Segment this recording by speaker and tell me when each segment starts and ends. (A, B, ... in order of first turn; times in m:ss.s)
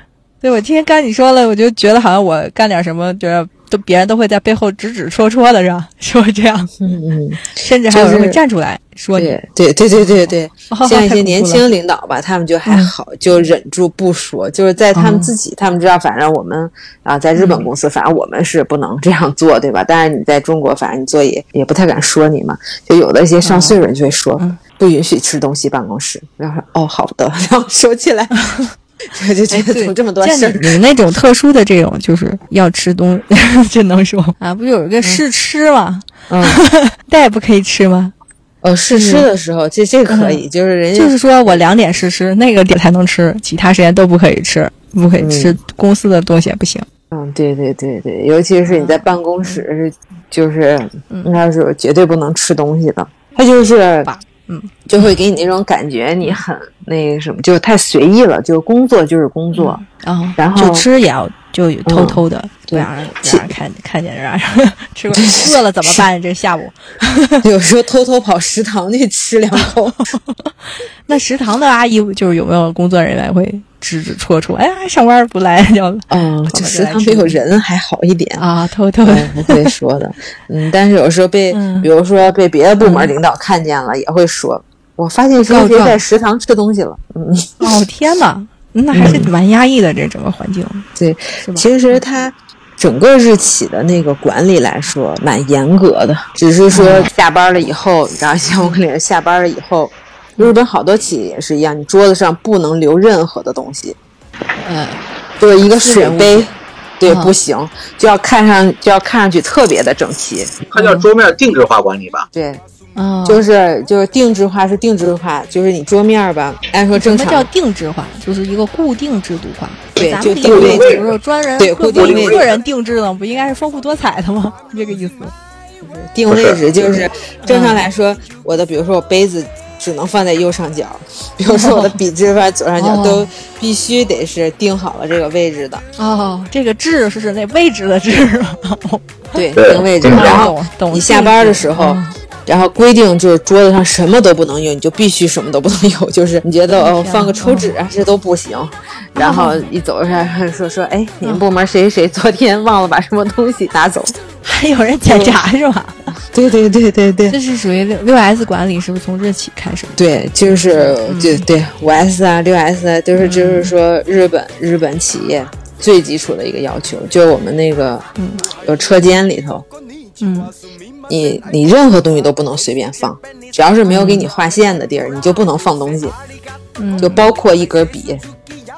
0:00.4-0:06.7 A
0:06.8-0:08.4 B
0:07.5-0:09.3 A
0:09.1-0:28.4 B
0:09.9-0:11.6 A
0:12.6-0:12.9 A
0:14.9-0:15.3 A
0:17.4-0:17.7 A
0:23.4-0:23.8 A
0:28.3-0:28.7 A
0:29.1-0:30.8 B
0:29.5-0:38.1 A
0:36.3-0:36.6 B
0:38.6-0:41.7 B
0:38.9-0:39.3 A
0:40.1-0:40.4 A
0:40.9-0:46.8 A
0:45.2-0:45.6 B
0:47.1-0:54.1 B
0:48.6-0:49.6 A
0:51.1-0:51.4 A
0:54.0-0:54.7 A
0:54.9-0:59.8 B
0:59.5-1:07.4 A
1:00.4-1:00.9 B
1:01.8-1:03.5 B
1:05.1-1:06.1 B
1:07.4-1:10.1 B
1:09.6-1:10.5 A
1:11.1-1:17.4 A
1:16.1-1:18.5 B
1:18.4-1:19.7 A
1:19.0-1:27.7 B
1:21.5-1:21.9 A
1:22.8-1:23.1 A
1:25.4-1:26.0 A
1:27.6-1:30.8 A
1:28.9-1:29.3 B
1:31.0-1:44.0 B
1:31.4-1:32.0 A
1:36.7-1:37.1 A
1:44.6-1:45.0 A
1:45.4-1:50.6 B
1:45.7-1:46.5 A
1:47.0-1:47.3 A
1:50.7-1:52.2 C
1:50.8-1:51.0 A
1:52.3-1:52.6 B
1:52.9-1:53.4 A
1:53.2-1:57.5 B
1:56.9-2:05.3 A
2:00.0-2:01.1 B
2:00.4-2:01.1 C
2:01.6-2:02.5 B
2:01.9-2:02.6 C
2:05.8-2:15.8 B
2:06.3-2:06.6 C
2:07.4-2:07.8 A
2:11.4-2:12.0 A
2:12.8-2:13.3 A
2:16.0-2:19.4 A
2:19.3-2:34.2 B
2:19.6-2:20.4 C
2:20.0-2:22.2 A
2:26.7-2:27.7 A
2:29.2-2:29.7 A
2:34.4-2:36.0 A
2:35.0-2:35.4 B
2:36.3-2:37.4 B
2:37.3-2:40.2 A
2:40.0-2:48.1 B
2:40.7-2:41.4 A
2:43.1-2:43.7 A
2:48.2-2:48.4 A
2:48.6-2:49.7 B
2:50.2-2:50.5 A
2:51.1-2:56.2 B
2:53.9-2:54.3 A
2:56.8-2:57.3 A
2:57.0-2:58.2 B